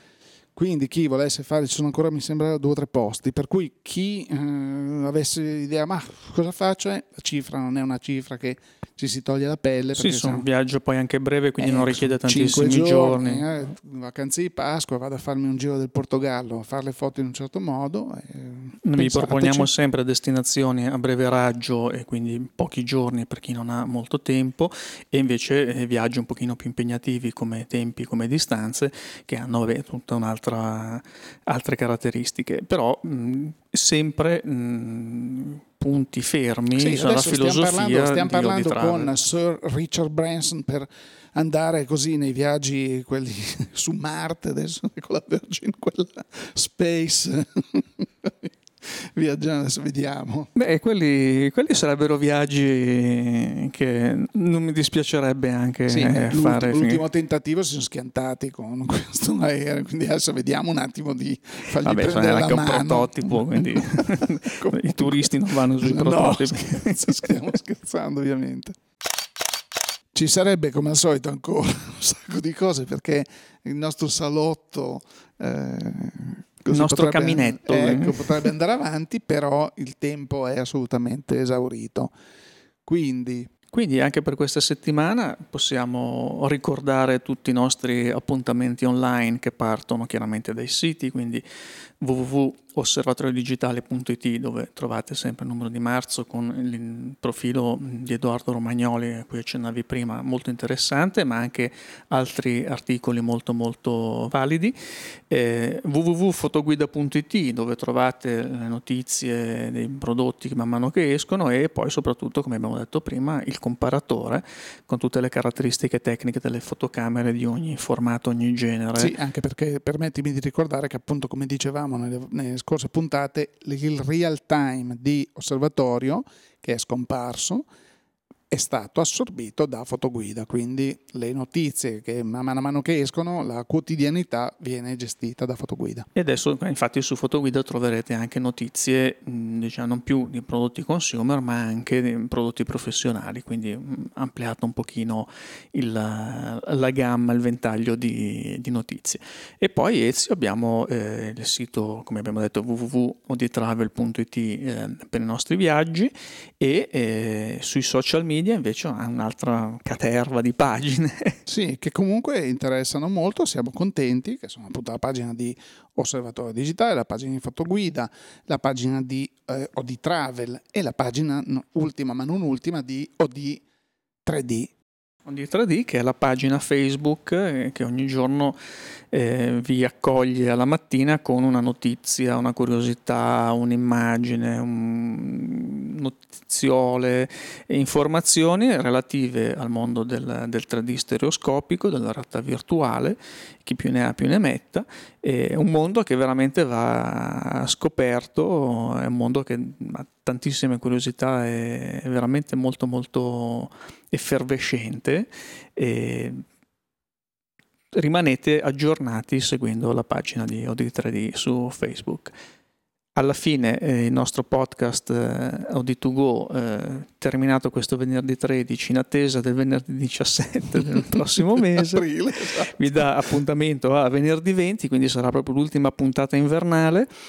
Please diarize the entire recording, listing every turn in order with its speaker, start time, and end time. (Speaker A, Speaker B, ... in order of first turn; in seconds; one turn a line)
Speaker A: 0.5-10.4
Speaker B: 9.9-13.5
Speaker A: 11.6-19.7
Speaker B: 18.8-39.1
Speaker A: 36.7-50.5
Speaker B: 50.5-57.0
Speaker A: 55.9-68.8
Speaker B: 61.8-67.4
Speaker A: 70.1-82.1
Speaker B: 76.7-78.5
Speaker A: 82.8-83.5
Speaker B: 83.7-91.4
Speaker B: 92.0-104.8
Speaker B: 105.3-119.1
Speaker A: 119.0-127.7
Speaker A: 128.5-136.1
Speaker B: 136.1-161.4
Speaker A: 161.5-173.6
Speaker A: 174.2-174.7
Speaker B: 175.2-178.6
Speaker B: 179.1-206.4
Speaker B: 207.9-212.3
Speaker B: 213.1-222.1
Speaker A: 221.1-223.1
Speaker B: 222.7-227.1